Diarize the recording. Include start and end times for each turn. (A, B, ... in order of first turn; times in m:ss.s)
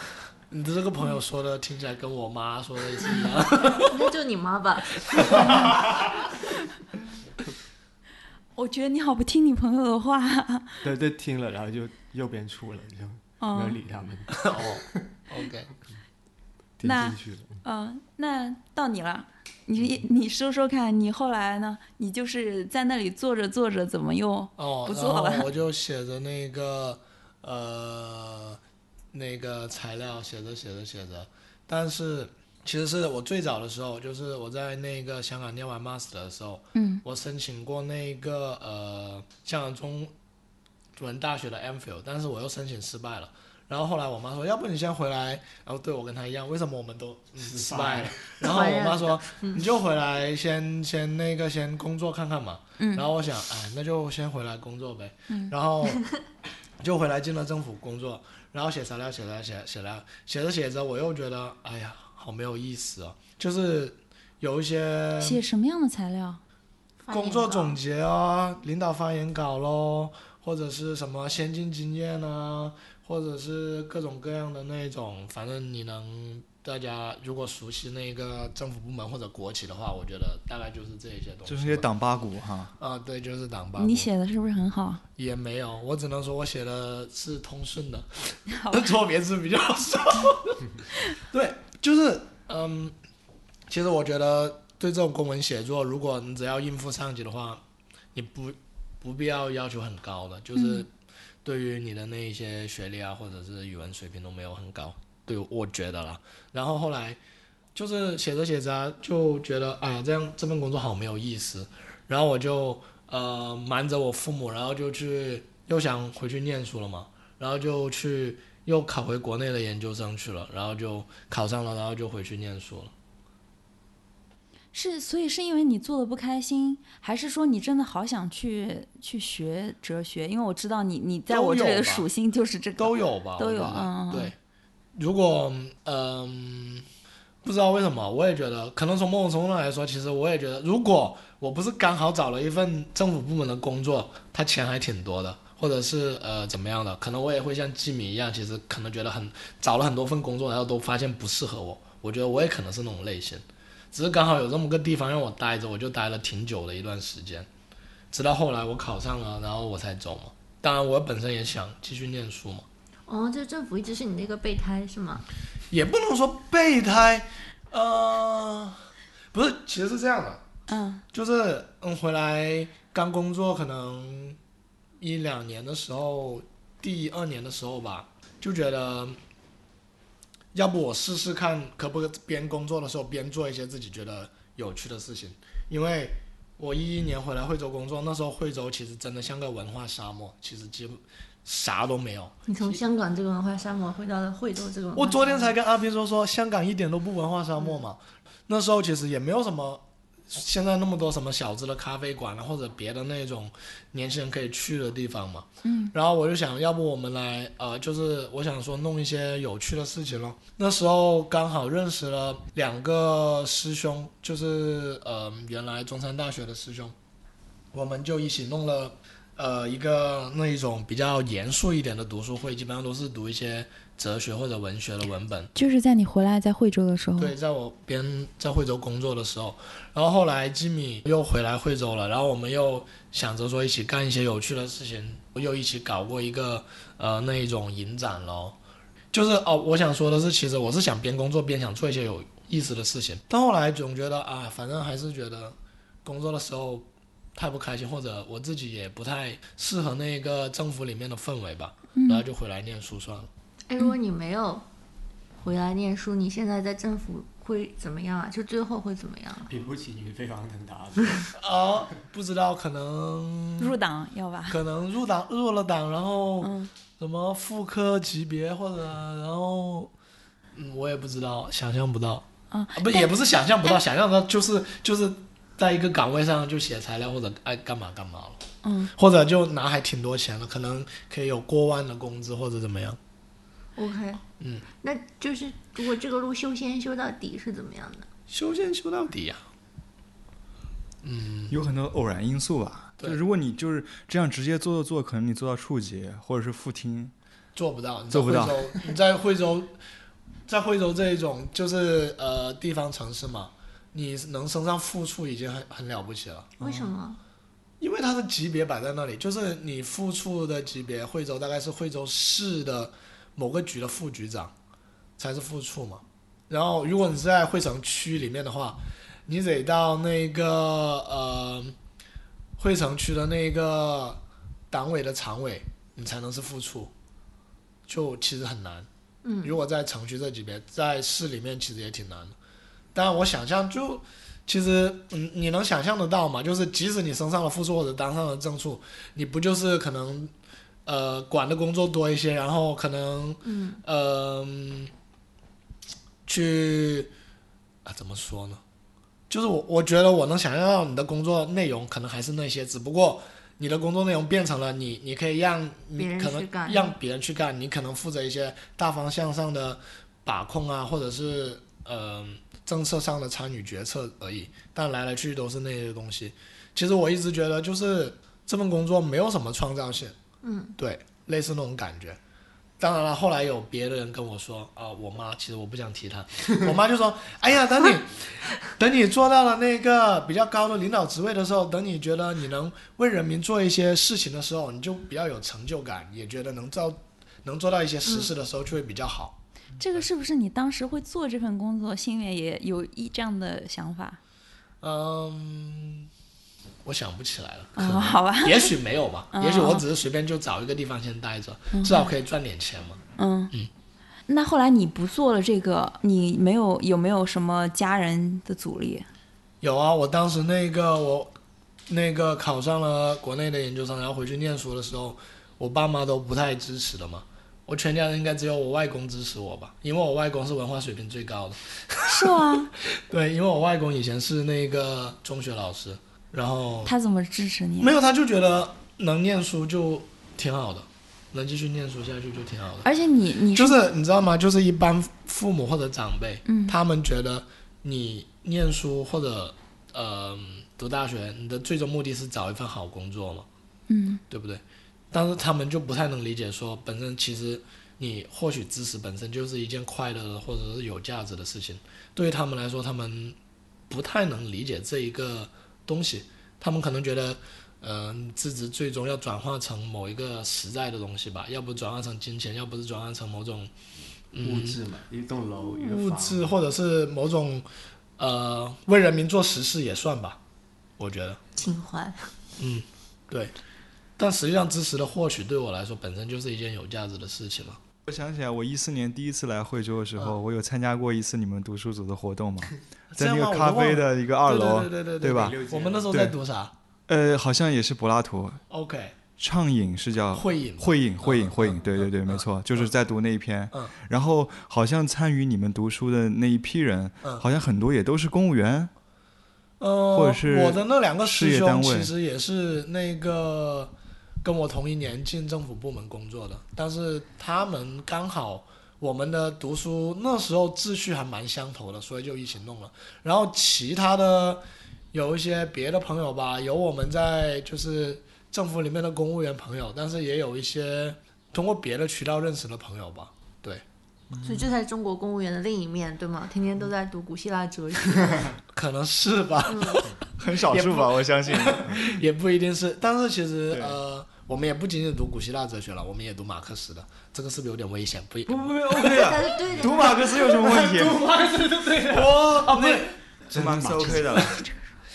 0:00.5-0:04.0 A
0:03.8-0:05.8 B
0:05.0-0:05.8 A
0:08.6-0:10.8 C
0:10.8-0:15.0 D
0:13.4-0:13.8 C
0:14.4-0:15.7 A
0:16.8-0:17.6 D
0:16.8-0:25.5 C
0:24.6-0:28.6 A
0:29.1-0:40.1 A
0:36.7-0:37.0 C
0:41.0-0:56.0 A
0:47.4-0:48.3 D
0:48.4-0:49.6 B
0:52.8-0:53.1 C
0:55.3-0:55.5 C
0:56.8-1:05.4 A
1:05.2-1:06.4 C
1:07.0-1:07.8 B
1:07.1-1:21.9 A
1:21.4-1:22.7 E
1:22.8-1:24.1 A
1:23.8-1:25.0 C
1:25.2-1:32.9 A
1:28.5-1:28.9 C
1:33.7-1:37.6 A
1:38.2-1:40.9 A
1:40.6-1:40.8 C
1:41.4-1:47.2 A
1:47.8-2:02.9 A
2:04.7-2:14.3 C
2:11.3-2:12.1 A
2:12.8-2:14.4 A
2:15.0-2:16.8 A
2:17.4-2:37.5 A
2:38.1-2:42.7 A
2:43.1-2:45.3 B
2:45.7-2:50.4 A
2:50.7-2:51.0 C
2:51.1-2:54.4 A
2:55.0-2:59.2 A
3:00.5-3:12.8 A
3:12.5-3:15.6 B
3:15.0-3:36.9 A
3:25.6-3:25.9 C
3:37.7-3:45.5 A
3:45.6-3:47.4 C
3:47.2-3:58.6 A
3:59.1-4:13.3 A
4:12.0-4:12.2 C
4:13.7-4:14.6 B
4:15.4-4:19.5 B
4:19.5-4:21.3 D
4:21.4-4:23.8 A
4:23.6-4:24.6 C
4:24.5-4:29.9 A
4:26.4-4:26.7 C
4:30.6-4:43.0 A
4:32.5-4:33.1 C
4:38.6-4:38.9 C
4:43.8-4:44.2 B
4:44.4-4:44.6 A
4:44.8-4:48.1 B
4:48.3-4:49.4 A
4:51.0-4:51.6 A
4:51.5-4:57.1 E
4:57.6-4:59.7 A
4:58.1-4:58.6 E
5:00.5-5:06.6 A
5:06.6-5:07.2 B
5:07.8-5:14.5 A
5:15.2-5:21.8 A
5:22.6-5:26.9 A
5:27.9-5:28.9 A
5:29.2-5:29.6 B
5:29.4-5:32.4 A
5:32.9-5:40.3 A
5:40.9-5:44.9 A
5:43.4-5:43.8 B
5:46.3-5:47.1 A
5:47.8-5:48.6 A
5:49.3-6:10.2 A
5:56.0-5:57.0 B
6:10.4-6:10.8 B
6:10.8-6:12.2 A
6:12.8-6:29.4 A
6:29.8-6:34.2 C
6:34.8-6:36.1 A
6:36.8-6:43.0 A
6:37.8-6:38.7 C
6:39.3-6:39.8 C
6:41.7-6:42.1 C
6:43.2-6:43.5 C
6:44.3-6:49.1 C
6:49.6-6:51.3 A
6:51.9-7:02.4 A
7:02.1-7:02.7 C
7:02.9-7:06.9 A
7:06.8-7:07.9 C
7:07.8-7:12.9 A
7:12.8-7:13.8 C
7:13.5-7:23.5 A
7:16.5-7:16.8 C
7:23.9-7:24.2 C
7:24.3-7:33.4 A
7:33.9-7:43.7 A
7:44.3-7:44.8 A
7:44.4-7:46.6 D
7:45.7-7:47.7 A
7:48.2-7:50.4 A
7:51.0-7:51.4 A
7:51.6-7:52.3 B
7:52.6-7:53.5 A
7:54.2-7:57.8 A
7:58.1-8:05.6 E
8:03.2-8:06.7 A
8:05.4-8:06.1 D
8:06.1-8:06.4 E
8:07.1-8:08.6 E
8:08.7-8:09.2 A
8:09.4-8:18.9 E
8:10.3-8:12.9 A
8:19.8-8:43.8 A
8:20.1-8:22.1 E
8:44.3-8:44.7 E
8:44.4-8:48.5 B
8:48.7-8:59.3 A
8:49.7-8:50.1 B
8:50.4-8:52.2 E
8:53.7-8:54.0 E
8:58.5-9:01.3 E
8:59.0-9:00.4 B
9:00.8-9:02.9 D
9:02.1-9:03.1 A
9:02.7-9:04.6 E
9:03.5-9:04.4 D
9:04.0-9:04.5 A